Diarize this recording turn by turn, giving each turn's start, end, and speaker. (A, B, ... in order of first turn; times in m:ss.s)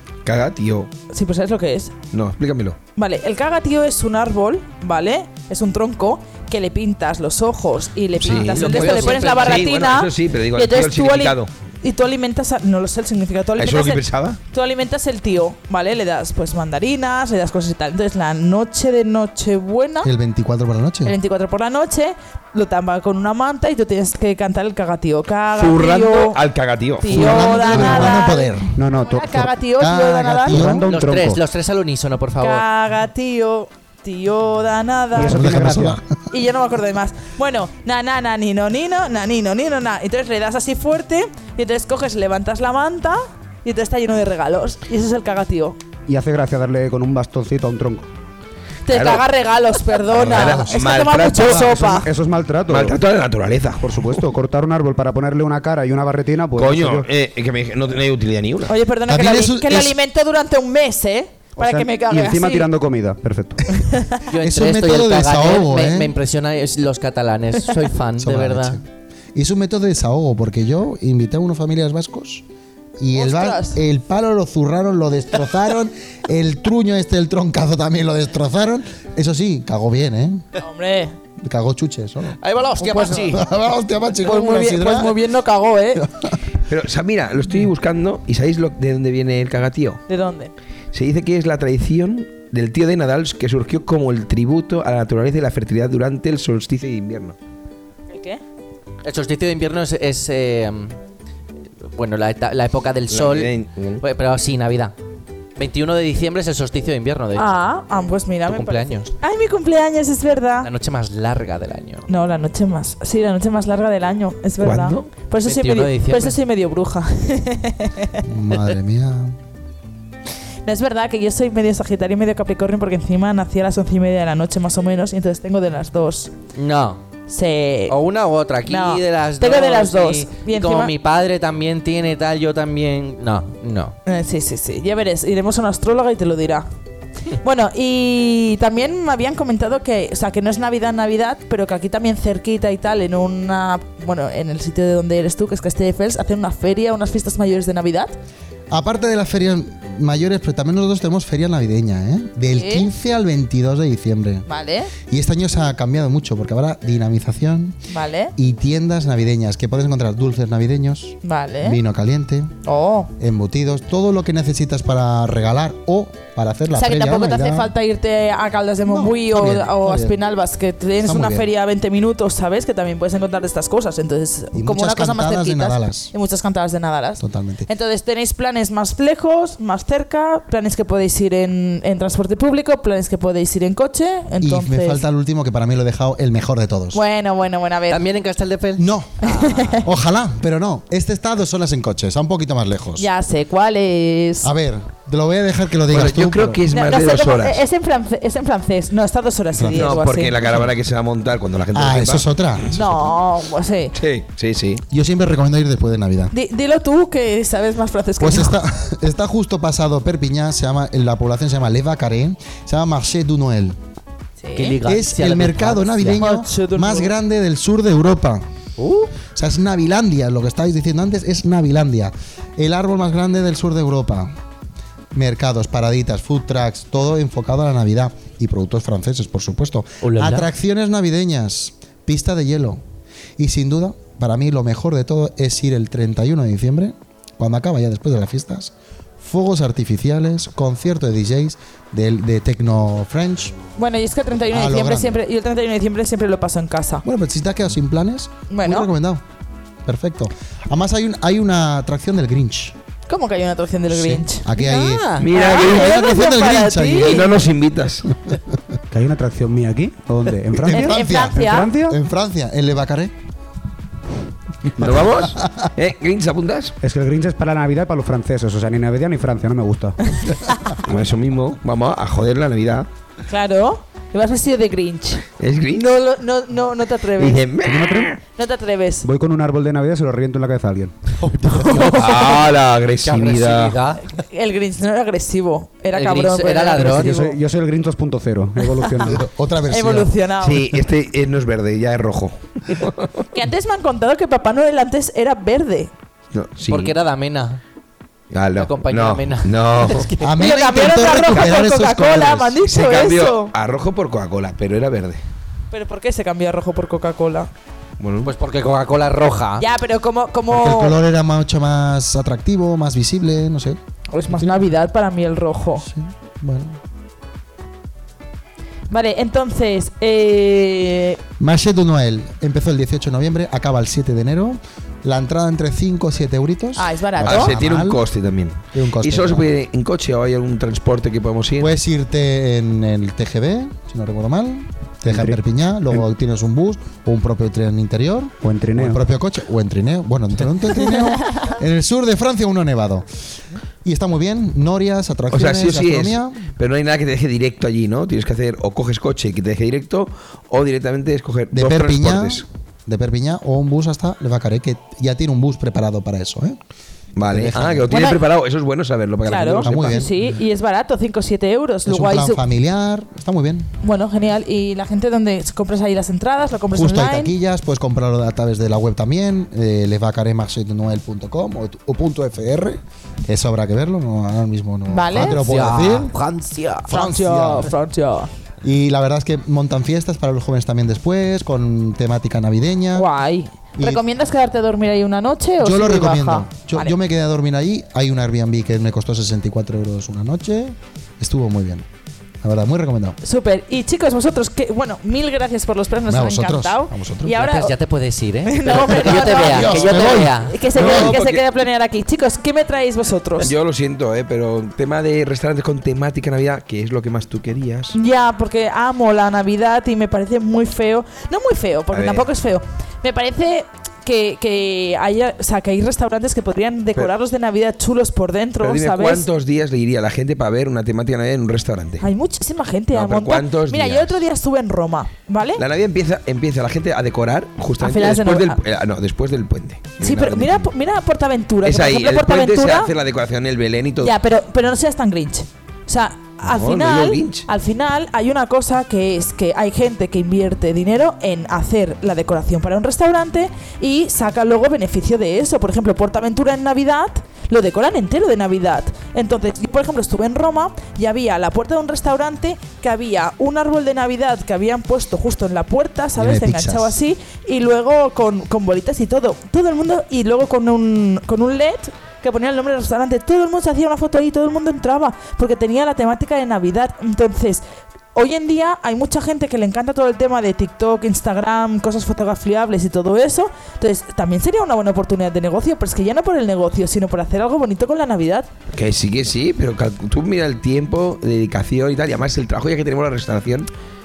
0:00.2-0:00.9 A
0:01.1-0:01.9 B
0:02.1-0:02.8 A
0:03.0-0:20.1 B
0:08.2-0:11.5 A
0:08.4-0:09.6 C
0:13.6-0:14.4 A
0:20.0-0:21.2 D
0:21.0-0:26.4 B
0:25.6-0:27.5 A
0:27.0-0:30.7 B
0:27.1-0:28.7 D
0:27.3-0:28.2 E
0:28.8-0:29.6 E
0:29.8-0:31.4 D
0:30.5-0:31.4 E
0:30.9-0:32.6 C
0:32.4-0:35.4 B
0:35.2-0:36.0 E
0:35.3-0:36.0 D
0:36.3-0:45.8 B
0:46.1-0:48.1 E
0:48.9-0:52.1 B
0:48.9-0:49.2 A
0:50.1-0:50.8 D
0:50.2-0:51.6 A
0:51.5-0:53.0 E
0:52.7-0:54.2 A
0:53.8-0:57.1 E
0:56.6-0:58.7 A
0:58.7-1:02.7 B
0:59.1-1:00.0 D
1:01.6-1:03.8 E
1:03.7-1:04.3 B
1:04.3-1:08.8 C
1:04.4-1:06.1 D
1:08.2-1:12.4 D
1:13.0-1:20.4 D
1:13.2-1:13.8 B
1:20.6-1:21.2 B
1:21.4-1:25.2 D
1:22.4-1:23.5 C
1:22.9-1:23.4 B
1:24.2-1:26.0 B
1:26.0-1:26.4 D
1:26.7-1:30.0 A
1:30.1-1:30.5 B
1:30.9-1:37.4 A
1:38.1-1:38.4 B
1:39.0-1:41.0 C
1:41.9-1:45.0 C
1:43.1-1:44.0 A
1:45.6-1:47.5 C
1:47.4-1:50.7 B
1:48.5-1:49.1 C
1:50.6-1:52.1 C
1:52.1-1:58.3 B
1:55.4-1:56.4 C
1:58.2-1:59.4 D
2:00.7-2:06.3 B
2:06.6-2:07.0 C
2:07.3-2:08.0 B
2:07.9-2:14.0 C
2:08.6-2:10.9 B
2:14.1-2:16.7 B
2:17.4-2:28.1 B
2:28.7-2:34.5 D
2:32.5-2:32.9 B
2:34.5-2:34.9 B
2:35.0-2:37.8 D
2:37.9-2:38.3 B
2:38.4-2:42.5 D
2:41.2-2:41.8 B
2:42.6-2:43.1 B
2:43.2-2:47.7 D
2:46.7-3:05.0 B
2:48.8-2:50.2 D
2:51.0-2:51.5 D
2:54.5-2:56.1 D
2:57.2-2:57.7 D
3:04.4-3:07.0 D
3:06.9-3:08.0 B
3:07.9-3:09.8 C
3:08.8-3:09.2 D
3:09.2-3:09.9 B
3:09.7-3:13.1 D
3:13.0-3:14.5 B
3:14.4-3:16.6 D
3:15.9-3:17.6 A
3:16.7-3:20.4 B
3:19.6-3:20.0 D
3:19.7-3:22.3 A
3:21.7-3:23.1 D
3:22.7-3:24.0 B
3:24.0-3:24.8 A
3:24.9-3:26.3 D
3:26.3-3:28.6 B
3:28.2-3:33.8 D
3:34.4-3:34.8 B
3:34.6-3:36.2 C
3:34.8-3:38.4 D
3:36.1-3:37.1 B
3:38.8-3:39.1 C
3:39.3-3:44.3 D
3:45.1-3:52.8 D
3:50.0-3:50.5 C
3:53.4-4:03.6 D
4:03.8-4:07.0 B
4:04.5-4:05.2 D
4:07.0-4:09.2 D
4:08.5-4:08.9 B
4:09.8-4:12.8 D
4:13.1-4:14.5 B
4:13.9-4:17.3 D
4:14.5-4:15.3 C
4:15.2-4:16.0 A
4:15.3-4:17.2 B
4:17.0-4:18.1 A
4:18.3-4:18.6 D
4:18.9-4:22.0 E
4:20.5-4:23.1 D
4:20.7-4:21.8 B
4:24.8-4:26.8 A
4:25.4-4:25.7 D
4:26.8-4:30.2 E
4:30.2-4:30.8 B
4:30.9-4:32.9 A
4:33.3-4:35.2 B
4:35.4-4:35.8 A
4:35.8-4:37.4 B
4:37.2-4:38.2 A
4:37.7-4:38.1 E
4:38.4-4:39.1 B
4:39.0-4:41.0 E
4:41.2-4:42.5 C
4:41.4-4:42.4 B
4:41.8-4:43.8 A
4:43.0-4:44.0 C
4:44.1-4:47.4 B
4:45.9-4:47.2 C
4:46.8-4:49.2 E
4:48.8-4:49.1 B
4:49.0-4:50.1 D
4:49.7-4:50.7 B
4:50.4-4:53.2 A
4:53.3-4:55.9 B
4:56.3-4:57.0 A
4:56.7-4:57.6 C
4:58.3-5:00.1 A
4:58.6-5:00.4 C
5:00.2-5:02.6 D
5:00.4-5:03.5 B
5:02.7-5:05.2 A
5:05.7-5:07.5 B
5:08.0-5:08.3 A
5:08.2-5:09.6 C
5:09.6-5:11.0 B
5:10.5-5:13.8 D
5:14.1-5:15.9 B
5:15.8-5:16.8 D
5:18.9-5:21.2 B
5:21.4-5:28.0 D
5:26.8-5:27.6 B
5:27.2-5:31.7 A
5:28.7-5:29.5 D
5:31.6-5:43.1 D
5:35.0-5:35.4 E
5:38.4-5:39.0 E
5:43.8-5:46.5 D
5:45.3-5:52.4 A
5:51.5-5:56.6 D
5:57.2-5:59.9 A
5:57.3-5:58.0 D
5:57.9-5:58.2 B
5:59.3-6:02.4 B
5:59.6-6:00.1 D
6:01.9-6:03.7 D
6:03.8-6:07.3 B
6:06.7-6:16.1 D
6:14.9-6:15.4 B
6:15.2-6:17.0 C
6:16.9-6:17.7 D
6:16.9-6:18.3 B
6:18.6-6:23.1 D
6:23.0-6:27.0 B
6:23.8-6:24.0 D
6:25.6-6:31.9 D
6:32.4-6:33.2 D
6:33.2-6:37.8 B
6:36.1-6:37.4 D
6:37.4-6:40.6 C
6:38.4-6:43.5 B
6:38.8-6:41.2 D
6:40.7-6:41.4 A
6:43.4-6:48.0 A
6:47.9-6:59.3 B
6:51.9-6:52.3 A
6:58.6-7:02.1 A
7:02.0-7:05.6 B
7:02.9-7:04.2 A
7:05.6-7:10.7 A
7:07.8-7:08.6 B
7:10.0-7:12.9 B
7:11.6-7:14.2 A
7:14.0-7:47.6 B
7:16.4-7:17.5 A
7:36.2-7:37.0 D
7:48.1-7:58.5 B
7:58.7-8:03.7 A